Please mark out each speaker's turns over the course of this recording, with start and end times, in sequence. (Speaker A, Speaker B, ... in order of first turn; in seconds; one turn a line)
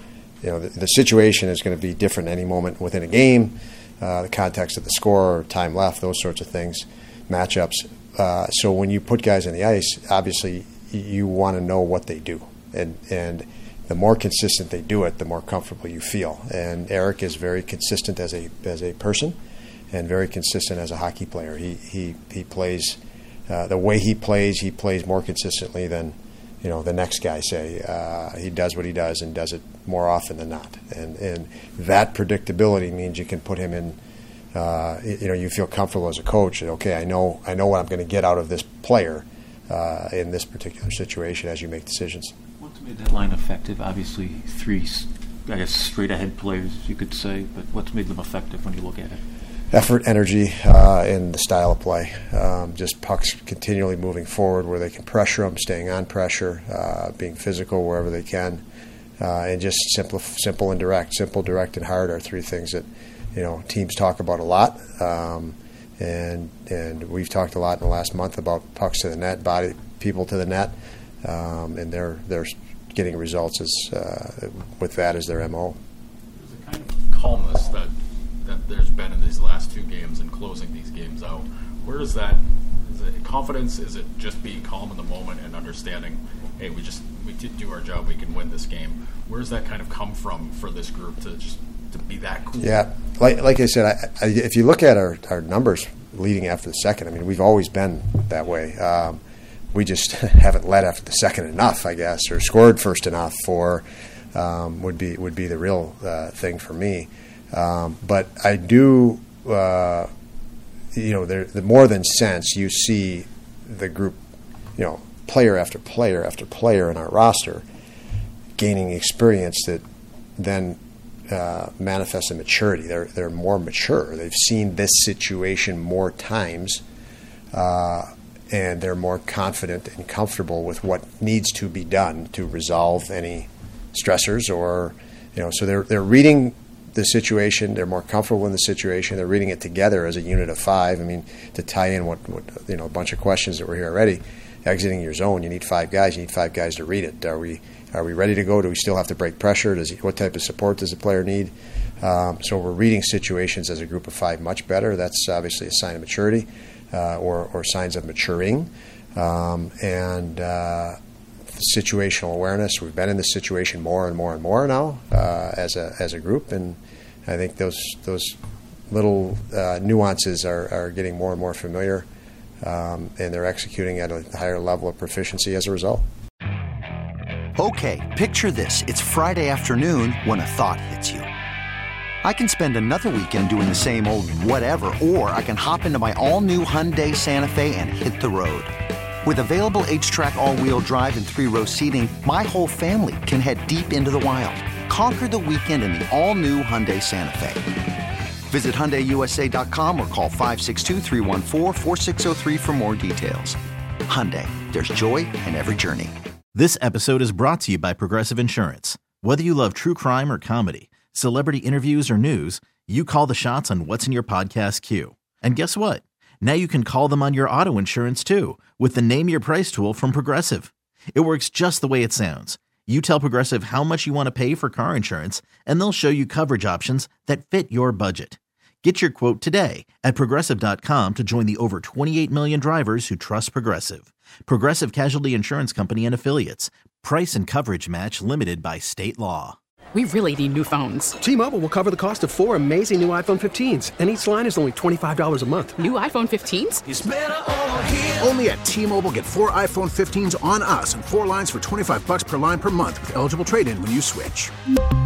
Speaker A: 0.4-19.4
Speaker A: 19.9-34.0
Speaker A: 34.5-42.3
Speaker B: 42.9-49.1
Speaker A: 49.7-58.6
Speaker A: 59.2-75.8
Speaker C: 76.4-77.9
Speaker C: 78.5-92.9
Speaker A: 92.6-99.2
Speaker A: 99.7-110.1
Speaker A: 110.9-114.2
Speaker A: 114.8-117.6
Speaker A: 118.6-119.8
Speaker A: 120.4-126.8
Speaker A: 127.5-161.0
Speaker A: 161.5-168.4
Speaker A: 168.9-172.1
Speaker A: 172.6-176.1
Speaker D: 177.6-181.3
Speaker D: 182.2-197.7
Speaker D: 198.5-206.1
Speaker E: 206.6-239.6
Speaker F: 240.0-241.1
Speaker G: 241.2-245.8
Speaker F: 245.8-246.8
Speaker H: 246.9-254.5